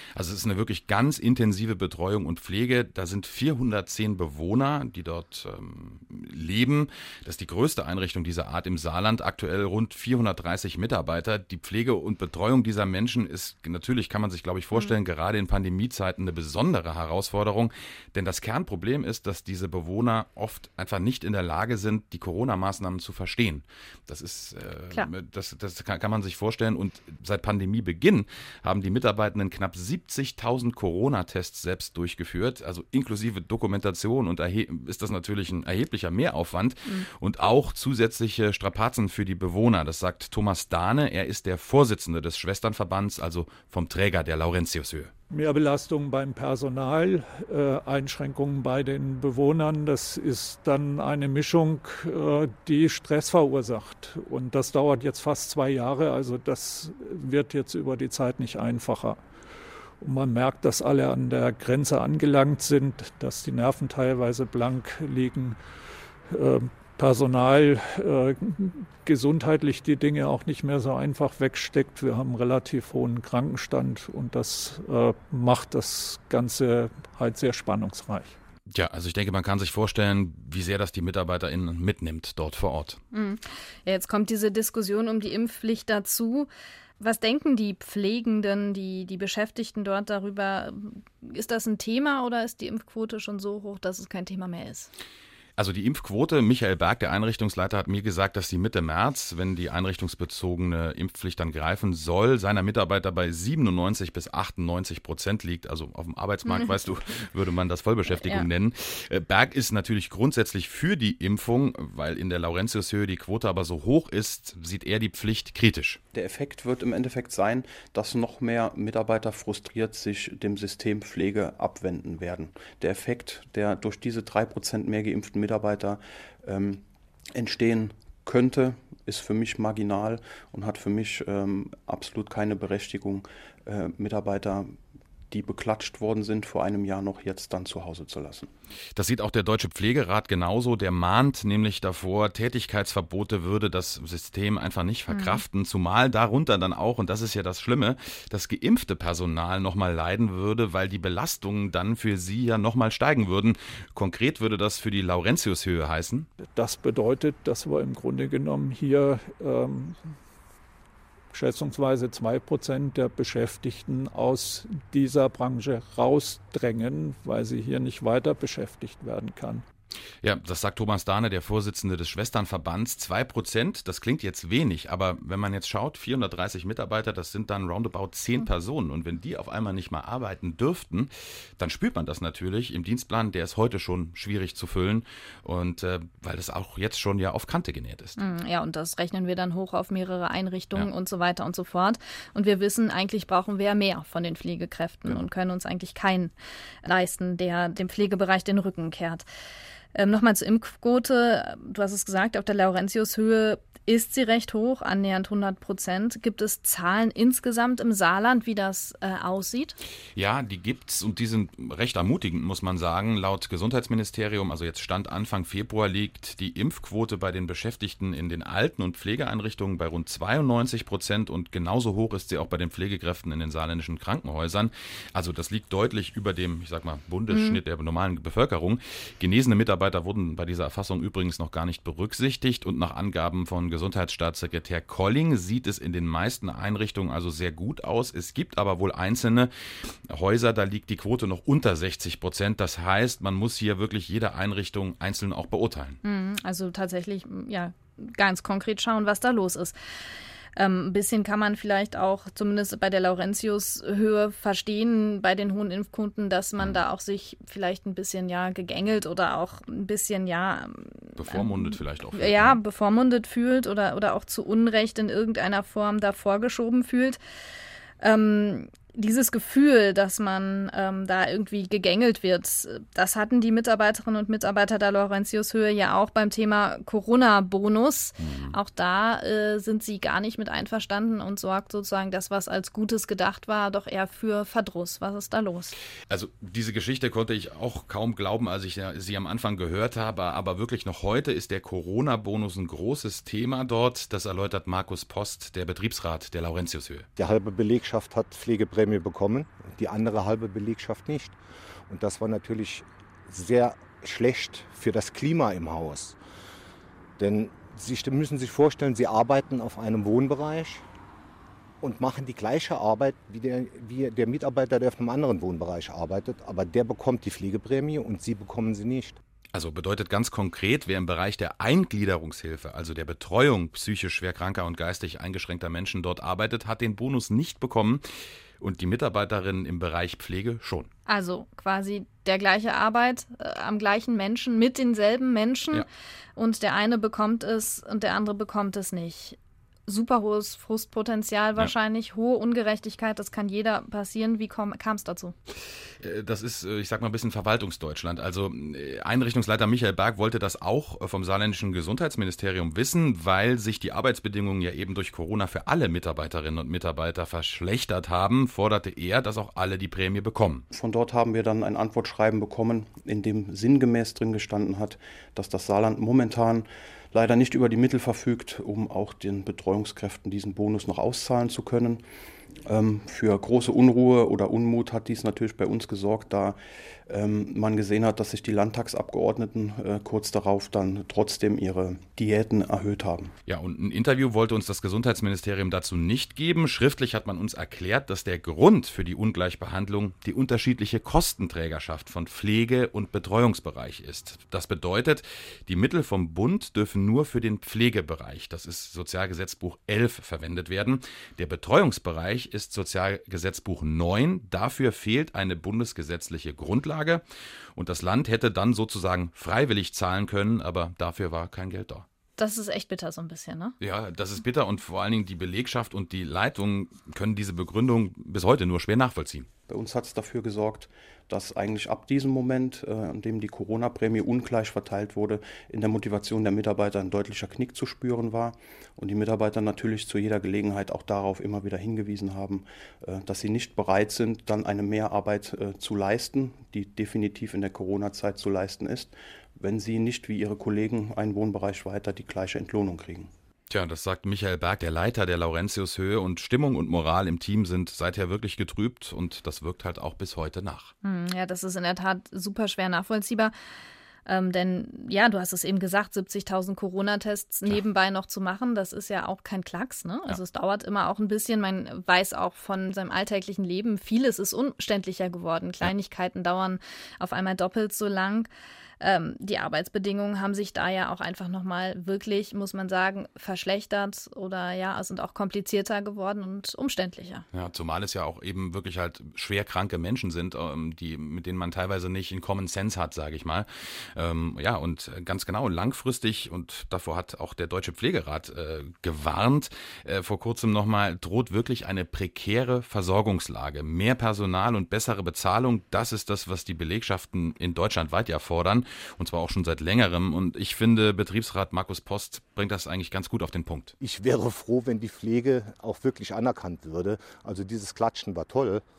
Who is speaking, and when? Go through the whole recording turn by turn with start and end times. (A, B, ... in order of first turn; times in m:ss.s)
0:00.2-0:45.1 A
0:45.3-0:59.2 B
1:00.0-1:05.6 B
1:06.3-1:18.4 B
1:18.7-1:23.0 A
1:23.1-1:34.9 C
1:35.6-1:56.0 A
1:46.4-1:46.7 C
1:48.1-1:48.5 C
1:56.1-2:06.8 D
2:07.3-2:14.7 D
2:15.3-2:18.5 D
2:19.0-2:36.3 A
2:25.1-2:25.4 C
2:36.4-2:40.2 B
2:41.3-2:49.6 B
2:50.2-3:08.2 A
3:08.2-3:19.2 C
3:19.9-3:29.8 C
3:30.2-3:59.5 A
3:47.3-3:47.6 C
4:00.1-4:06.0 A
4:06.0-4:09.7 C
4:10.6-4:27.2 C
4:21.2-4:22.6 A
4:28.0-4:45.7 C
4:38.2-4:38.6 A
4:46.1-4:57.1 A
4:57.2-5:01.4 E
5:01.9-5:06.2 E
5:07.2-5:10.8 E
5:11.8-5:19.2 E
5:19.5-5:28.0 A
5:28.6-5:30.9 A
5:31.1-5:35.8 C
5:36.4-5:45.3 C
5:46.0-6:00.6 A
6:00.7-6:12.0 D
6:12.6-6:23.3 D
6:23.4-6:47.2 A
6:47.8-6:52.0 A
6:52.4-6:53.8 C
6:53.8-6:59.5 A
6:59.7-7:23.3 D
7:23.7-7:30.9 A
7:31.0-7:33.5 C
7:34.2-7:57.4 C
7:57.5-8:23.9 A
8:24.0-8:28.8 E